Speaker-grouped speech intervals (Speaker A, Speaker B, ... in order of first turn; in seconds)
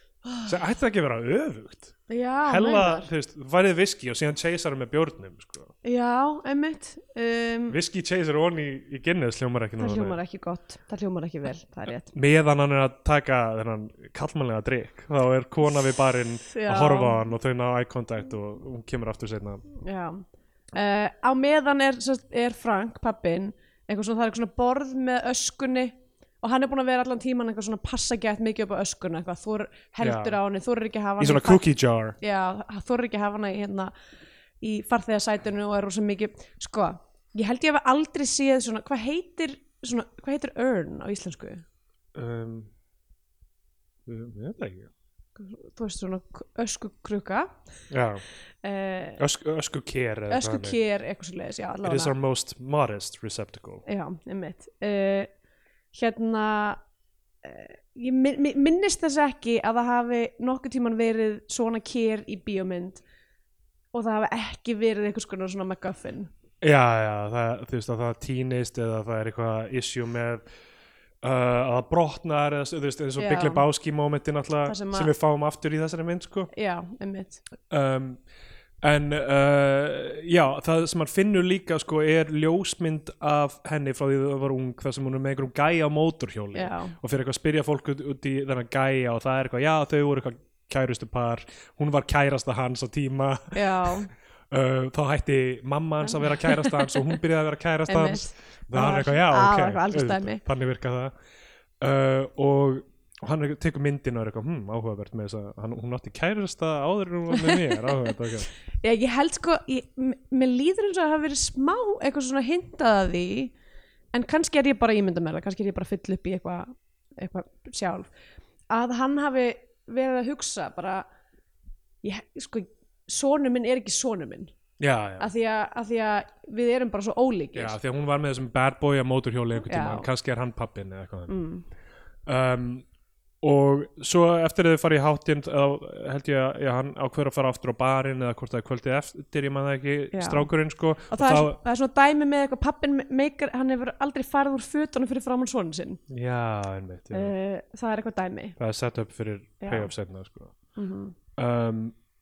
Speaker A: 0.2-0.5, 2.1-3.1, 5.8-7.8, 9.8-12.1, 16.5-17.2, 19.8-31.6, 32.2-33.9, 34.6-41.6, 45.4-47.5, 48.6-49.2, 50.3-52.1, 53.9-55.3, 55.9-56.8, 57.4-63.0, 63.9-66.3, 73.2-73.7, 74.7-75.1, 76.5-77.4, 86.5-87.0, 93.5-94.1, 96.1-97.0, 97.9-100.4, 107.3-108.0, 108.8-113.5, 114.1-118.1, 118.7-121.1, 122.0-124.5, 125.2-127.8, 129.7-130.1, 131.3-131.7, 140.1-140.5, 141.1-146.0, 147.1-148.6, 149.6-149.9, 150.8-151.2
Speaker B: 0.5-5.7, 7.7-10.2, 12.1-19.6, 30.0-30.4, 31.2-32.2, 42.1-42.7, 44.1-44.9, 47.9-48.2, 49.2-50.8, 51.8-53.8, 66.6-70.4, 71.2-76.5, 77.7-78.2, 78.8-94.0, 94.5-101.1, 101.8-108.5, 124.8-125.3, 127.5-131.3, 132.3-132.8, 133.4-141.6, 146.1-147.3, 148.6-150.5, 151.4-151.9